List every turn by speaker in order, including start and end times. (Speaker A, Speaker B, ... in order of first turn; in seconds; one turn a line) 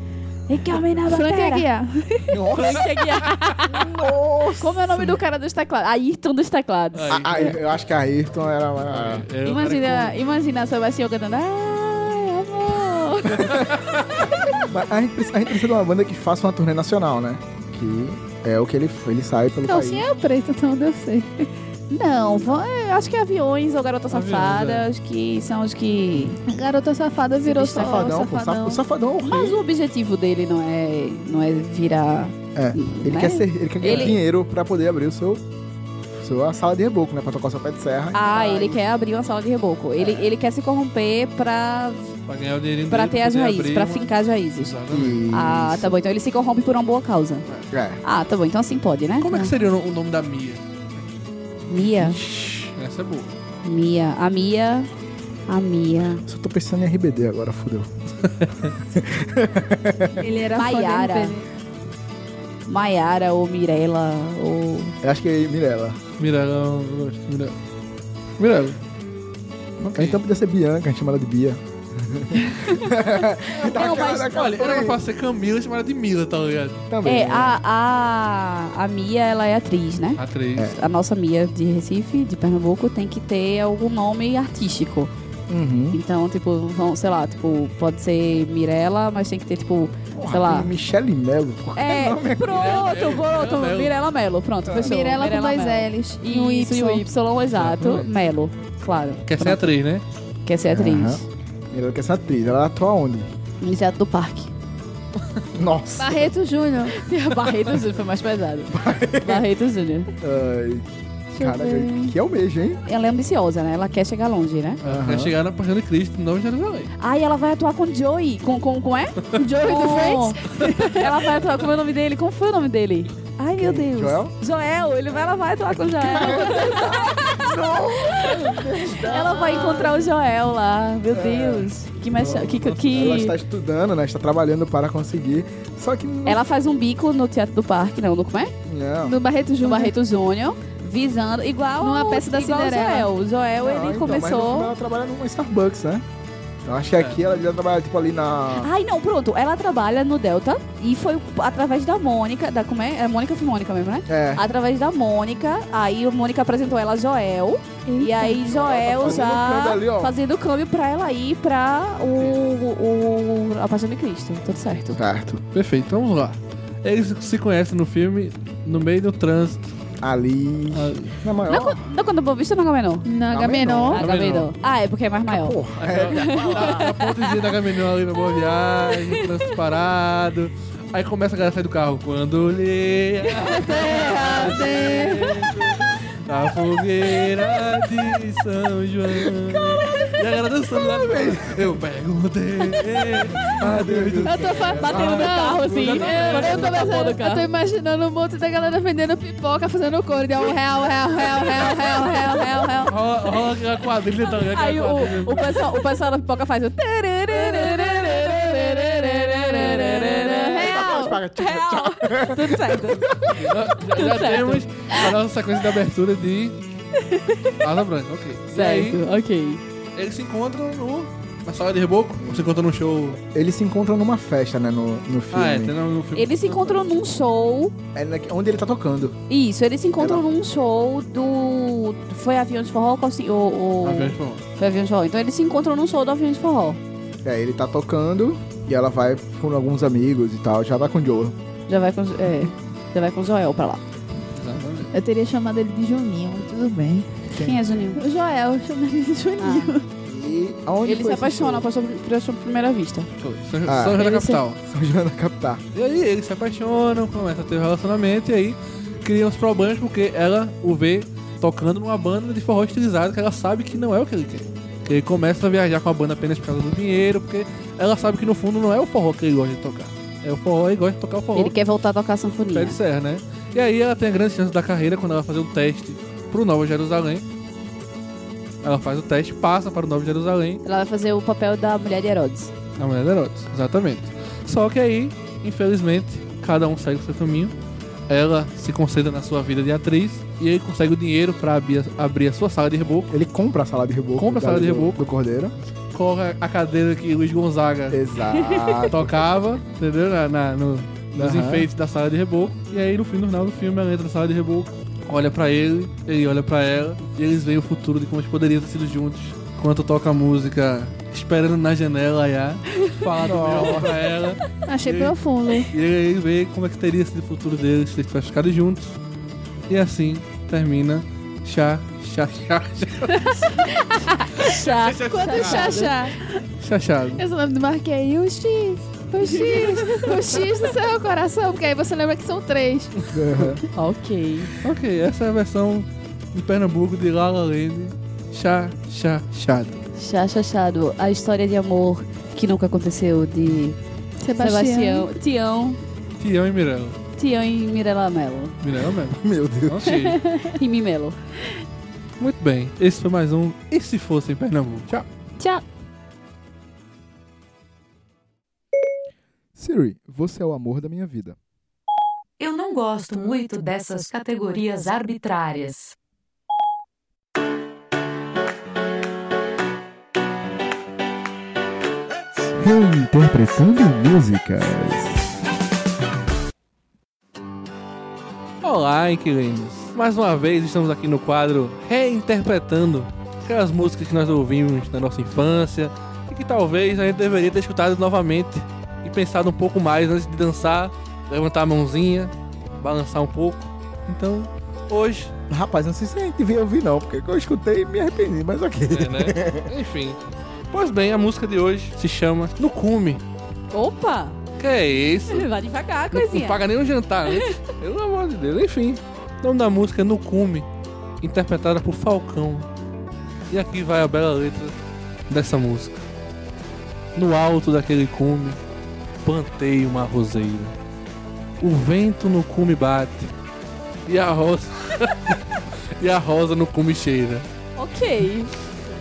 Speaker A: 0.5-1.7
Speaker B: 1.1-2.3
Speaker C: 2.3-2.8
Speaker A: 2.5-3.8
Speaker C: 3.7-5.2
Speaker A: 4.6-7.5
Speaker D: 6.9-7.6
Speaker C: 7.1-9.2
Speaker D: 8.8-10.2
Speaker A: 9.4-13.7
Speaker D: 13.5-14.1
Speaker C: 14.6-20.0
Speaker B: 19.6-21.5
Speaker A: 21.9-26.4
Speaker D: 24.1-24.9
Speaker B: 26.4-28.8
Speaker A: 27.4-28.2
Speaker C: 27.8-29.6
Speaker A: 29.2-34.2
Speaker C: 32.5-35.4
Speaker C: 36.1-38.8
Speaker A: 38.1-42.1
Speaker D: 42.3-45.2
Speaker A: 42.9-44.8
Speaker C: 44.9-46.0
Speaker A: 45.3-47.4
Speaker C: 47.7-48.0
Speaker A: 48.0-49.5
Speaker D: 49.2-50.6
Speaker A: 51.7-52.2
Speaker C: 52.0-52.7
Speaker D: 52.7-53.3
Speaker A: 53.6-54.9
Speaker A: 55.5-56.2
Speaker C: 56.2-57.9
Speaker D: 58.4-58.7
Speaker C: 58.9-60.2
Speaker B: 60.2-61.5
Speaker A: 60.5-61.4
Speaker A: 62.7-65.0
Speaker C: 65.0-66.0
Speaker D: 66.2-67.5
Speaker D: 68.4-68.8
Speaker C: 69.8-75.0
Speaker D: 70.0-70.2
Speaker D: 73.6-76.8
Speaker C: 76.9-77.6
Speaker A: 77.0-85.1
Speaker D: 80.2-80.7
Speaker C: 85.5-86.0
Speaker A: 85.9-90.7
Speaker C: 90.1-92.8
Speaker A: 91.8-99.7
Speaker D: 92.5-94.0
Speaker C: 94.7-95.0
Speaker B: 94.8-97.1
Speaker D: 97.5-98.1
Speaker D: 99.2-100.0
Speaker A: 100.5-101.2
Speaker C: 100.7-103.3
Speaker A: 103.6-104.5
Speaker C: 105.5-106.3
Speaker B: 106.0-107.0
Speaker A: 106.9-110.1
Speaker C: 108.7-109.5
Speaker C: 110.2-110.8
Speaker C: 111.4-112.8
Speaker A: 111.4-112.1
Speaker A: 112.8-114.8
Speaker D: 114.8-116.9
Speaker C: 114.8-115.3
Speaker A: 117.0-127.3
Speaker B: 119.5-121.0
Speaker C: 123.5-124.3
Speaker C: 126.0-129.8
Speaker A: 128.1-128.3
Speaker A: 128.9-133.3
Speaker B: 129.3-129.9
Speaker C: 131.1-136.4
Speaker D: 132.2-133.1
Speaker A: 136.2-138.5
Speaker C: 138.7-139.2
Speaker B: 139.1-139.9
Speaker A: 139.6-144.7
Speaker B: 141.8-143.1
Speaker C: 143.6-146.0
Speaker C: 146.6-148.7
Speaker D: 146.9-147.3
Speaker A: 148.6-165.0
Speaker C: 154.1-154.4
Speaker B: 157.8-158.5
Speaker C: 158.4-160.1
Speaker C: 164.9-165.4
Speaker D: 165.5-169.7
Speaker C: 170.0-171.8
Speaker D: 170.7-171.1
Speaker A: 171.5-173.1
Speaker B: 173.0-174.0
Speaker C: 173.3-174.0
Speaker A: 173.9-175.6
Speaker D: 174.0-174.5
Speaker C: 175.3-176.9
Speaker D: 175.8-196.7
Speaker A: 176.1-177.3
Speaker A: 178.6-179.3
Speaker B: 183.6-185.3
Speaker C: 190.9-191.8
Speaker C: 193.4-195.3
Speaker B: 194.2-202.8
Speaker A: 194.8-197.5
Speaker A: 201.9-203.5
Speaker D: 202.9-205.8
Speaker A: 204.3-213.0
Speaker D: 208.3-210.0
Speaker B: 210.1-211.1
Speaker C: 210.6-213.3
Speaker D: 213.3-216.6
Speaker A: 213.9-215.1
Speaker A: 217.1-217.5
Speaker D: 217.6-219.0
Speaker A: 218.5-219.6
Speaker D: 219.9-223.2
Speaker C: 222.2-222.5
Speaker C: 223.3-225.7
Speaker D: 225.3-226.8
Speaker A: 226.1-227.7
Speaker C: 227.9-229.2
Speaker A: 229.3-236.8
Speaker C: 230.0-230.2
Speaker D: 233.8-234.4
Speaker C: 237.2-241.4
Speaker A: 241.7-243.8
Speaker D: 244.3-244.9
Speaker B: 244.9-247.2
Speaker C: 247.3-247.6
Speaker A: 247.4-248.0
Speaker B: 247.9-249.9
Speaker A: 249.4-249.7
Speaker C: 250.0-251.7
Speaker A: 250.8-253.1
Speaker D: 253.2-254.6
Speaker C: 253.7-254.0
Speaker A: 254.0-254.4
Speaker C: 254.6-255.6
Speaker D: 255.7-271.5
Speaker A: 271.3-272.8
Speaker D: 272.5-277.2
Speaker D: 278.6-280.6
Speaker A: 280.6-282.5
Speaker D: 282.8-287.5
Speaker D: 288.1-293.1
Speaker C: 293.1-295.5
Speaker D: 294.2-295.1
Speaker D: 295.9-298.0
Speaker C: 297.9-299.1
Speaker D: 298.9-315.1
Speaker C: 301.1-301.7
Speaker C: 313.2-313.9
Speaker B: 314.7-315.7
Speaker D: 315.7-319.0
Speaker D: 319.7-323.5
Speaker B: 323.2-326.4
Speaker A: 324.4-326.0
Speaker D: 324.4-325.9
Speaker D: 326.6-327.2
Speaker B: 327.2-332.9
Speaker A: 329.2-330.1
Speaker C: 333.1-333.6
Speaker A: 333.7-334.5
Speaker D: 334.6-339.8
Speaker A: 340.0-343.8
Speaker B: 344.2-345.1
Speaker A: 344.4-345.8
Speaker D: 346.2-347.0
Speaker A: 347.2-348.5
Speaker D: 348.6-350.2
Speaker C: 349.2-350.0
Speaker A: 349.9-351.2
Speaker D: 352.2-355.1
Speaker C: 359.5-361.4
Speaker E: 362.4-365.9
Speaker C: 372.6-375.3
Speaker D: 378.6-395.3
Speaker C: 395.5-399.7
Speaker D: 398.9-400.2
Speaker D: 400.7-403.2
Speaker A: 403.7-404.4
Speaker D: 404.6-405.5
Speaker A: 405.3-406.6
Speaker D: 406.1-410.7
Speaker A: 407.3-407.5
Speaker D: 411.2-412.7
Speaker D: 413.5-414.7
Speaker D: 415.3-416.0
Speaker D: 417.1-418.6
Speaker D: 419.2-420.7
Speaker D: 421.6-423.3
Speaker D: 424.1-425.4
Speaker D: 426.0-427.4
Speaker A: 427.8-428.5